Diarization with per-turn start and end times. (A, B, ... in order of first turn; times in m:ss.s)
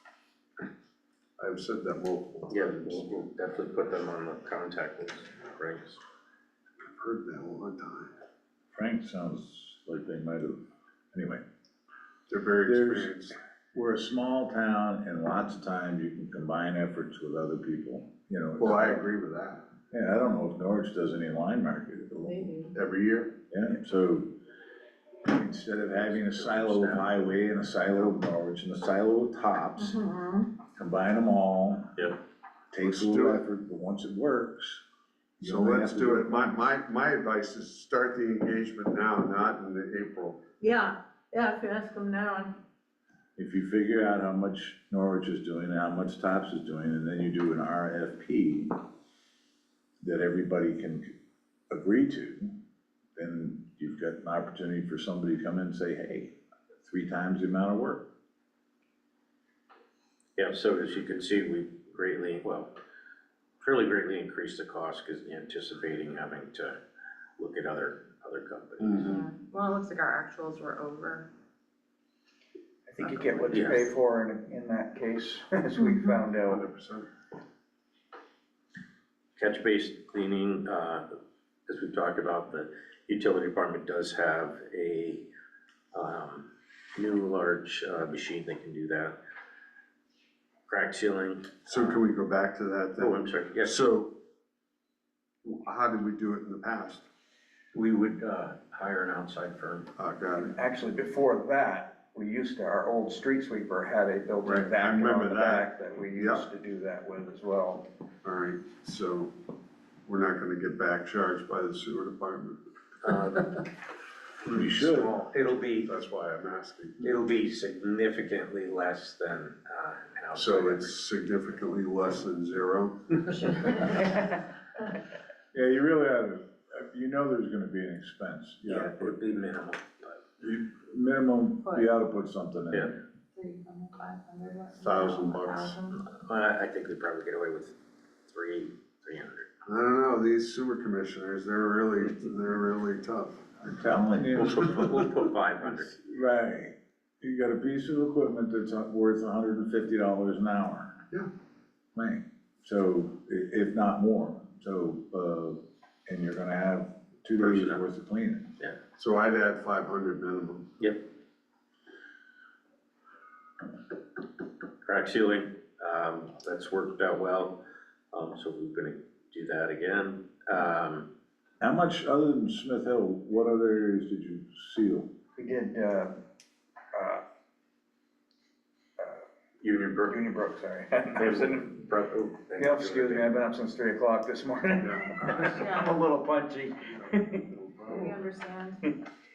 0:01.4-0:03.1 A
0:02.5-0:06.0 B
0:06.8-0:08.1 A
0:08.7-0:10.6 C
0:11.1-0:11.4 C
0:12.3-0:13.4 A
0:12.7-0:13.1 C
0:13.7-0:19.0 C
0:18.6-0:19.6 A
0:19.9-0:22.5 C
0:22.3-0:22.7 D
0:22.7-0:23.4 A
0:23.5-0:24.3 C
0:25.2-0:30.0 C
0:26.0-0:27.3 B
0:29.8-0:30.5 D
0:30.7-0:31.9 C
0:32.7-0:34.8 C
0:32.8-0:33.4 A
0:35.4-0:36.7 C
0:35.4-0:40.4 A
0:40.6-0:42.6 D
0:43.4-0:48.8 C
0:50.0-0:51.1 C
0:51.7-0:52.5 C
0:53.2-0:58.1 C
1:00.4-1:02.7 B
1:03.6-1:06.8 B
1:07.4-1:09.1 B
1:08.8-1:09.2 A
1:09.0-1:11.3 D
1:12.9-1:16.6 E
1:13.5-1:13.9 B
1:16.5-1:17.1 A
1:19.4-1:21.0 B
1:21.7-1:25.3 B
1:25.9-1:29.2 B
1:30.7-1:32.0 B
1:31.7-1:34.2 A
1:33.0-1:33.8 B
1:35.4-1:37.1 A
1:37.7-1:39.9 B
1:40.0-1:40.5 A
1:40.4-1:47.8 E
1:44.4-1:46.4 A
1:48.2-1:49.3 A
1:50.1-1:52.6 A
1:53.0-1:53.7 B
1:54.4-1:55.9 B
1:54.5-1:55.1 C
1:55.8-1:57.2 A
1:57.0-2:00.9 B
2:00.3-2:03.6 A
2:03.5-2:04.3 D
2:05.5-2:09.2 C
2:08.6-2:10.2 B
2:10.4-2:13.0 C
2:11.6-2:11.9 D
2:13.4-2:16.1 D
2:14.8-2:15.8 A
2:16.0-2:17.8 B
2:18.3-2:19.5 B
2:19.7-2:23.4 A
2:23.6-2:25.2 C
2:24.4-2:26.0 B
2:26.0-2:31.0 C
2:32.0-2:38.5 C
2:37.4-2:37.8 B
2:39.0-2:40.7 A
2:40.8-2:41.0 B
2:44.8-2:51.1 B
2:51.6-2:55.1 C
2:55.4-2:56.1 E
2:56.9-2:57.2 E
2:59.6-3:00.2 B
3:00.1-3:01.7 E
3:01.1-3:03.4 B
3:02.6-3:07.5 E
3:04.8-3:05.6 A
3:05.6-3:06.0 D
3:06.9-3:08.2 A
3:07.9-3:08.8 D